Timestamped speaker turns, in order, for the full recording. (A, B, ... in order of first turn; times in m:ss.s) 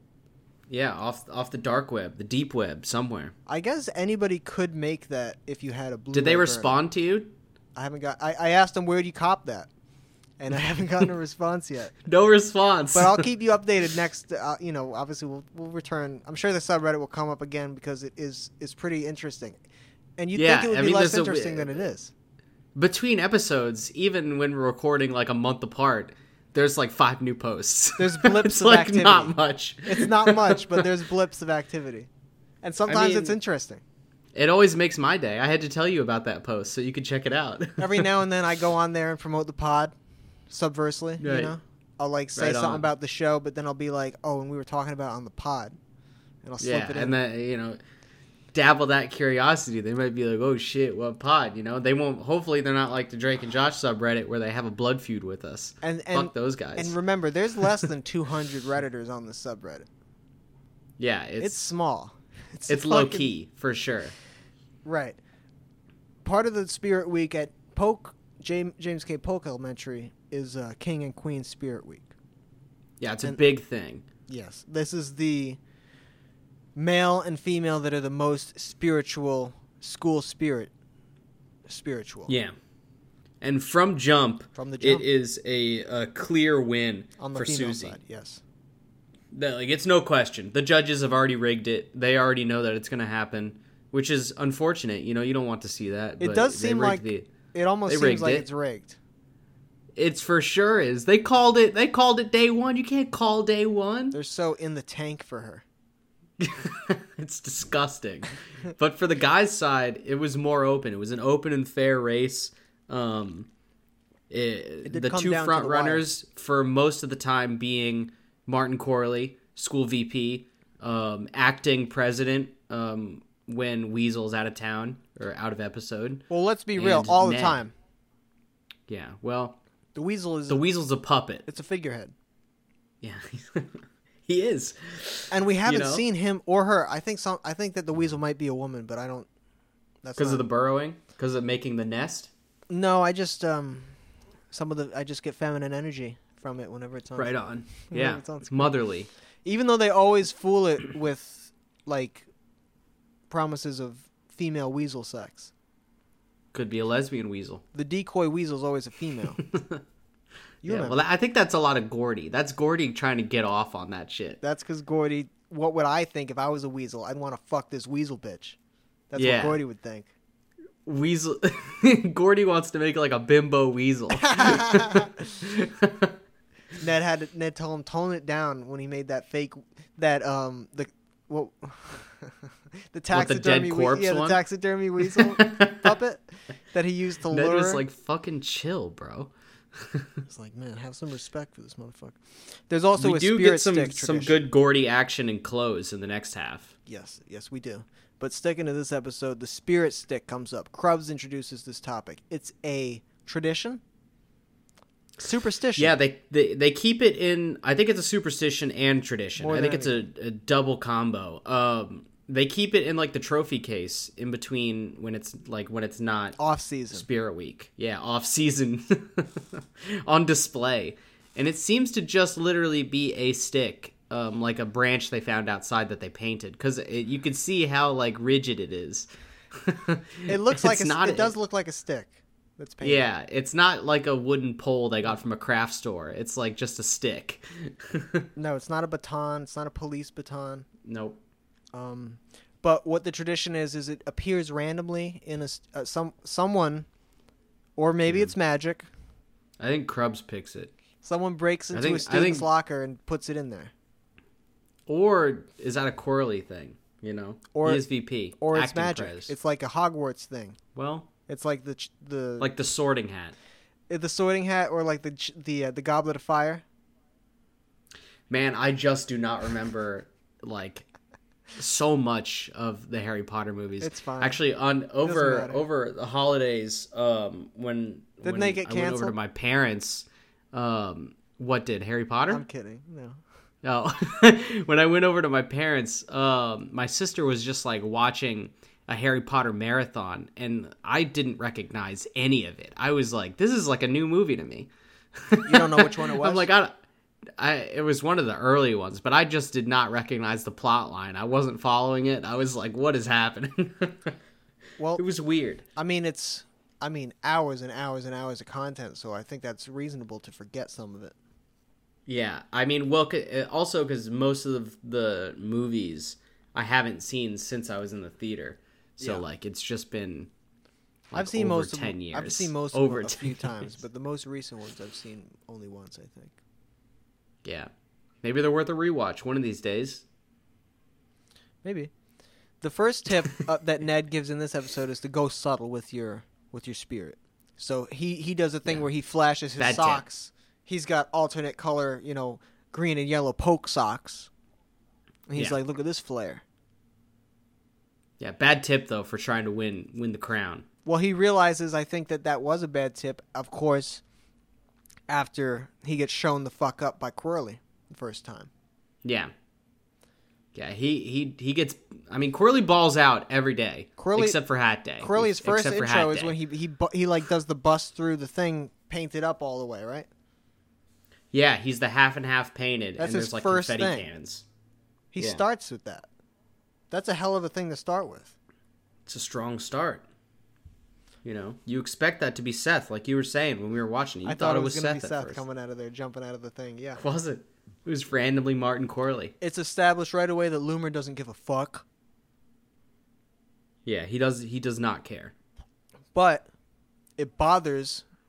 0:00.7-0:03.3 A
0:03.4-0:06.8 B
0:06.1-0:07.3 A
0:07.8-0:09.7 B
0:10.4-0:12.0 B
0:12.1-0:13.3 A
0:12.9-0:19.6 B
0:20.2-0:22.1 B
0:20.3-0:21.8 A
0:22.8-0:30.9 A
0:28.0-0:32.1 B
0:32.6-0:33.8 B
0:32.9-0:33.4 A
0:34.3-0:38.1 A
0:37.8-0:39.9 B
0:40.5-0:45.8 B
0:41.2-0:41.5 A
0:42.3-0:42.9 A
0:46.4-0:47.2 B
0:46.6-0:47.8 A
0:48.5-0:56.9 A
0:55.8-0:59.9 B
1:01.0-1:01.7 A
1:01.4-1:03.3 B
1:02.7-1:04.1 A
1:04.8-1:05.2 B
1:06.2-1:12.1 B
1:13.0-1:14.0 A
1:14.3-1:15.6 B
1:16.8-1:20.7 B
1:21.7-1:22.3 B
1:22.3-1:22.6 A
1:23.4-1:28.0 A
1:24.6-1:25.0 B
1:27.2-1:28.4 B
1:29.3-1:37.3 A
1:36.2-1:39.0 B
1:37.9-1:38.5 A
1:40.0-1:44.2 A
1:44.1-1:45.6 B
1:46.4-1:53.5 A
1:54.3-2:07.6 A
1:54.8-1:56.0 B
2:06.3-2:07.7 B
2:08.9-2:09.6 A
2:09.9-2:10.6 B
2:10.5-2:11.4 A
2:11.5-2:12.1 B
2:13.0-2:16.0 A
2:15.3-2:19.3 B
2:20.0-2:20.4 B
2:20.2-2:22.3 A
2:22.7-2:24.0 B
2:24.5-2:28.8 B
2:27.2-2:29.1 A
2:29.4-2:32.3 B
2:33.3-2:35.5 B
2:36.5-2:37.6 A
2:37.7-2:39.4 B
2:39.4-2:39.8 A
2:40.6-2:41.0 B
2:40.6-2:44.4 A
2:44.4-2:48.6 B
2:49.1-2:50.1 B
2:49.2-2:49.6 A
2:50.8-2:56.1 A
2:54.2-2:55.2 B
2:56.8-3:07.8 B
3:03.1-3:04.4 A
3:05.0-3:05.9 A
3:07.3-3:10.2 A
3:10.3-3:14.4 B
3:13.0-3:16.7 A
3:16.9-3:23.8 B
3:25.2-3:25.9 B
3:25.8-3:36.4 A
3:29.4-3:30.0 B
3:36.4-3:37.0 B
3:36.9-3:51.4 A
3:50.3-3:53.0 B
3:52.8-3:58.3 A
3:58.4-4:00.6 B
4:00.8-4:01.2 A
4:01.7-4:06.9 B
4:07.8-4:08.9 B
4:09.6-4:10.7 A
4:11.0-4:13.7 B
4:11.7-4:12.5 A
4:14.9-4:19.3 A
4:17.5-4:17.8 B
4:18.4-4:20.6 B
4:20.8-4:21.1 A
4:21.3-4:22.5 B
4:22.4-4:23.4 A
4:23.9-4:26.6 B
4:28.3-4:30.9 A
4:31.6-4:42.4 A
4:33.8-4:34.4 B
4:35.0-4:35.6 B
4:38.2-4:39.1 B
4:42.3-4:43.2 B
4:43.6-4:56.8 A
4:55.4-4:56.5 B
4:57.4-5:04.1 A
5:04.8-5:05.0 B
5:05.0-5:05.6 A
5:05.8-5:11.1 B
5:12.1-5:20.3 A
5:21.1-5:23.7 A
5:21.2-5:26.4 B
5:27.4-5:27.7 A
5:28.2-5:30.0 A
5:31.6-5:31.9 B
5:32.6-5:44.3 B
5:39.6-5:40.0 A
5:45.3-5:46.4 B
5:48.2-5:50.6 A
5:50.9-5:54.0 B
5:55.1-5:58.5 B
5:59.0-5:59.3 A
6:00.5-6:06.4 A
6:04.0-6:04.4 B
6:05.0-6:10.1 B
6:11.3-6:14.4 A
6:13.0-6:14.1 B
6:15.1-6:16.1 B
6:15.2-6:15.4 A
6:16.9-6:18.3 B
6:19.0-6:20.0 A
6:21.2-6:25.4 A
6:24.2-6:27.0 B
6:27.0-6:29.3 A
6:29.4-6:31.8 B
6:33.9-6:35.3 A
6:36.1-6:36.5 B
6:37.2-6:38.0 B